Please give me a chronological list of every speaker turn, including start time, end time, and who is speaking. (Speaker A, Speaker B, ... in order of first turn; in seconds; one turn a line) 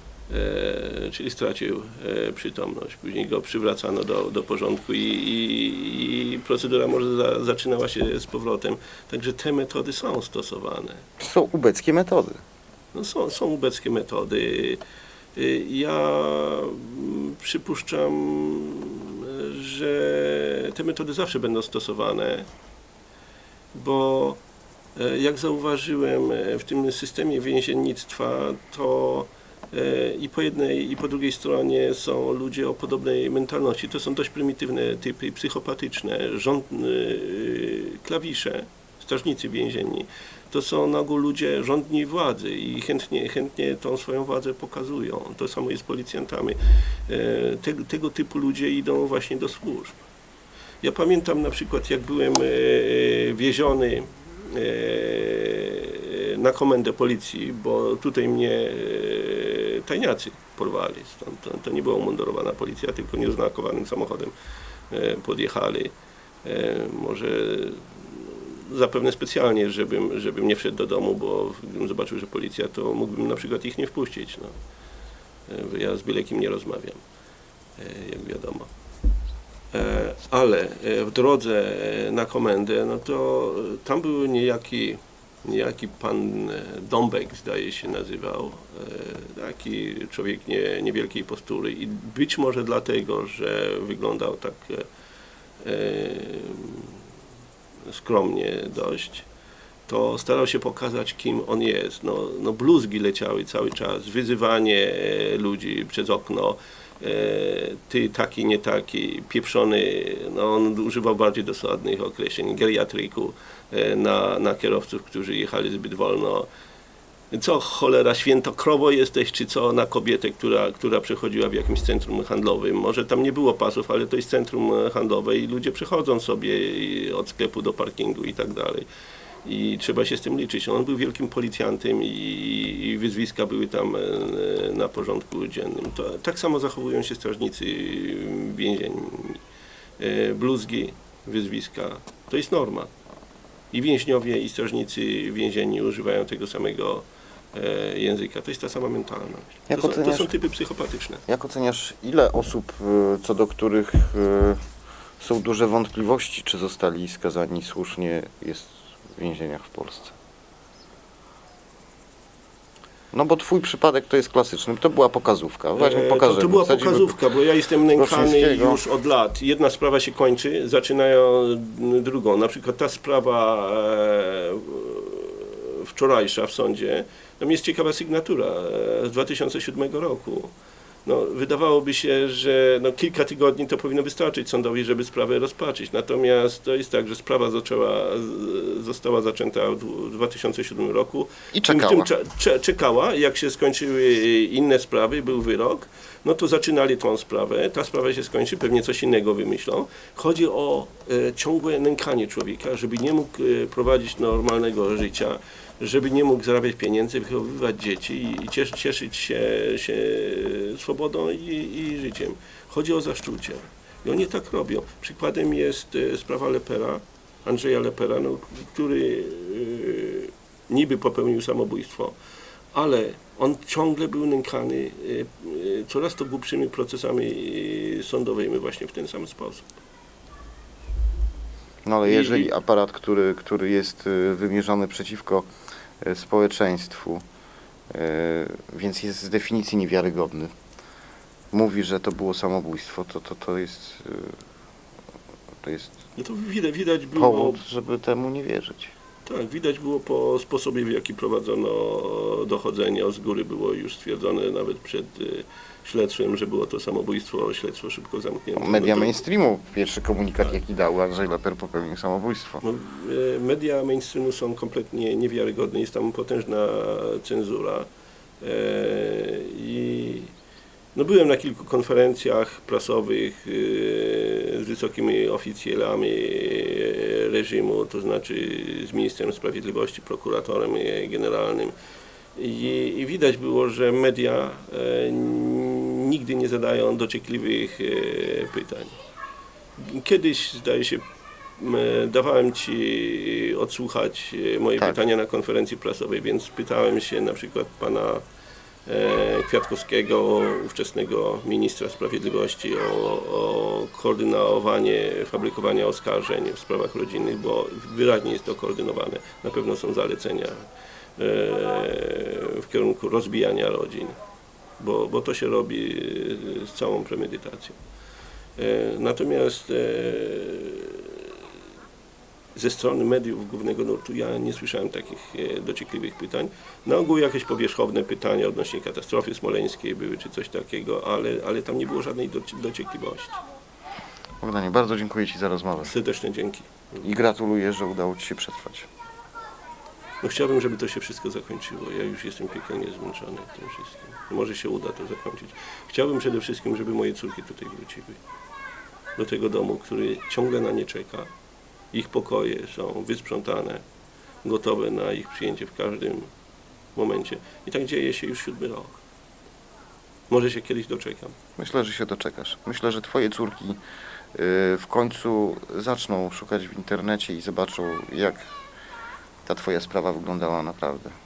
Speaker A: 0.3-11.0
Speaker B: 11.2-12.4
Speaker A: 12.9-14.8
Speaker A: 15.3-22.5
Speaker A: 23.7-24.4
Speaker A: 24.9-50.0
Speaker A: 50.8-64.3
Speaker A: 64.9-74.5
Speaker A: 75.5-77.0
Speaker A: 77.8-78.7
Speaker A: 79.7-94.9
Speaker A: 95.6-97.0
Speaker A: 97.9-99.3
Speaker A: 99.9-116.5
Speaker A: 117.3-128.8
Speaker A: 129.4-139.4
Speaker A: 140.0-142.9
Speaker A: 143.7-151.2
Speaker B: 149.7-150.3
Speaker B: 151.3-154.6
Speaker B: 155.2-160.1
Speaker B: 163.1-167.2
Speaker A: 165.8-180.5
Speaker B: 167.9-168.8
Speaker A: 181.0-222.1
Speaker B: 191.5-192.1
Speaker A: 222.7-229.7
Speaker B: 231.8-235.5
Speaker A: 232.0-232.5
Speaker B: 236.0-237.2
Speaker B: 237.9-240.5
Speaker B: 241.5-244.4
Speaker B: 245.6-246.0
Speaker A: 246.2-247.6
Speaker B: 247.2-248.9
Speaker A: 249.2-259.1
Speaker B: 258.6-262.6
Speaker A: 262.6-267.9
Speaker A: 268.4-270.3
Speaker A: 270.9-281.7
Speaker A: 282.3-288.9
Speaker A: 289.8-291.0
Speaker A: 291.6-298.2
Speaker A: 298.9-310.6
Speaker A: 311.2-314.1
Speaker A: 314.8-317.8
Speaker A: 318.6-321.4
Speaker A: 322.5-333.4
Speaker B: 334.4-335.9
Speaker A: 335.8-337.0
Speaker B: 337.0-338.9
Speaker A: 340.2-348.2
Speaker A: 349.2-351.3
Speaker A: 351.9-353.8
Speaker A: 354.4-356.3
Speaker A: 356.9-359.0
Speaker A: 360.3-361.3
Speaker B: 361.6-363.8
Speaker B: 364.3-368.4
Speaker B: 369.4-371.1